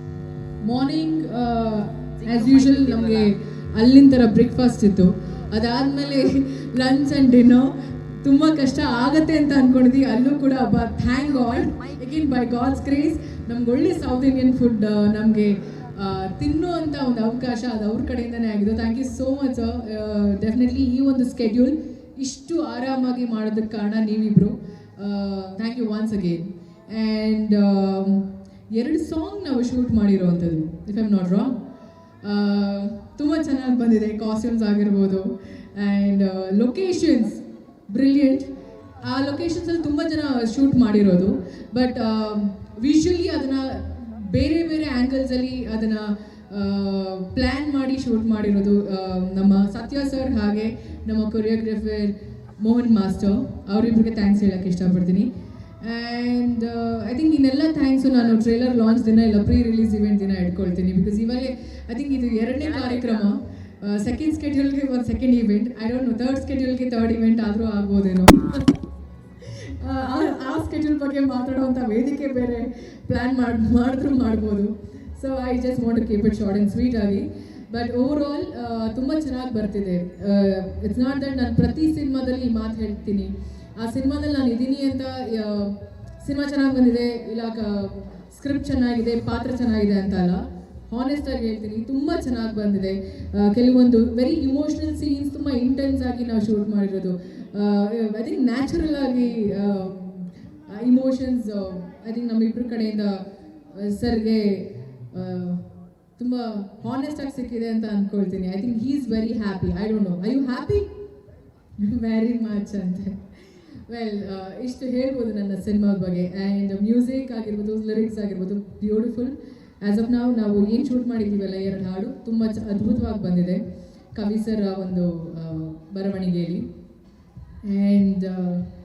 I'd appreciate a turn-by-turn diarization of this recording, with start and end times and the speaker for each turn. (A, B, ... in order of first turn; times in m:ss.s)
0:00.6-0:31.6 A
0:32.2-1:08.7 A
1:09.4-1:50.9 A
1:51.8-2:06.7 A
2:07.6-2:08.7 A